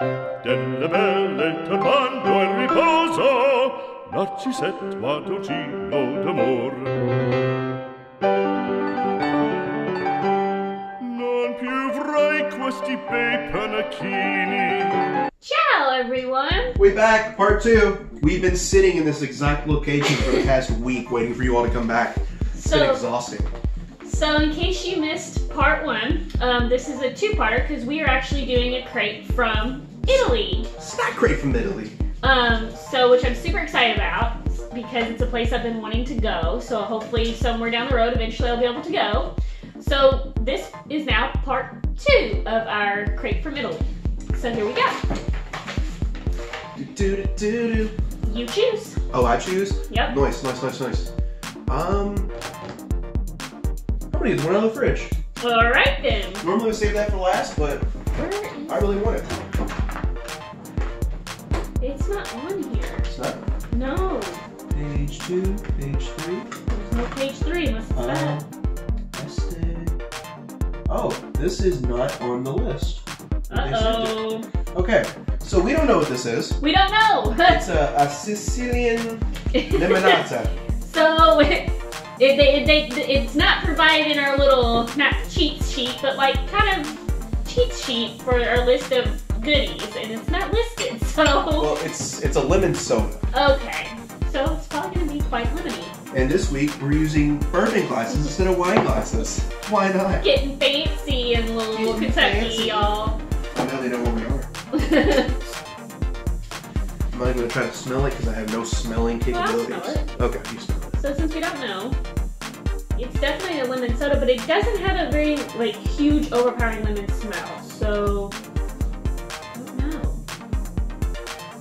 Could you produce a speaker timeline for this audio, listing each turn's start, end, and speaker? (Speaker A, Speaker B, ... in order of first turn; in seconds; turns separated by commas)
Speaker A: 0.4-7.0, Speaker A: 11.0-15.0, Speaker B: 15.4-16.8, Speaker C: 16.8-23.5, Speaker B: 22.5-23.0, Speaker B: 24.0-30.7, Speaker C: 30.8-32.0, Speaker B: 32.2-45.0, Speaker C: 46.8-47.9, Speaker B: 48.2-49.0, Speaker C: 49.1-51.1, Speaker B: 49.9-50.1, Speaker C: 51.7-52.3, Speaker C: 54.1-55.1, Speaker B: 55.4-56.5, Speaker C: 56.4-57.9, Speaker B: 58.1-59.0, Speaker C: 58.7-59.5, Speaker B: 61.8-63.1, Speaker C: 63.1-63.4, Speaker B: 63.7-64.4, Speaker C: 64.7-66.5, Speaker B: 66.7-68.4, Speaker C: 67.9-68.5, Speaker C: 69.1-70.0, Speaker C: 70.9-76.6, Speaker B: 73.5-74.5, Speaker B: 76.6-77.7, Speaker C: 77.4-80.5, Speaker B: 79.5-80.2, Speaker B: 80.8-91.8, Speaker C: 91.6-93.2, Speaker B: 93.3-95.9, Speaker C: 96.1-100.3, Speaker B: 100.2-103.2, Speaker C: 101.7-102.9, Speaker C: 103.5-104.5, Speaker B: 104.7-105.4, Speaker C: 107.1-111.0, Speaker B: 109.3-110.1, Speaker B: 111.0-112.0, Speaker B: 113.0-118.3, Speaker B: 119.5-120.2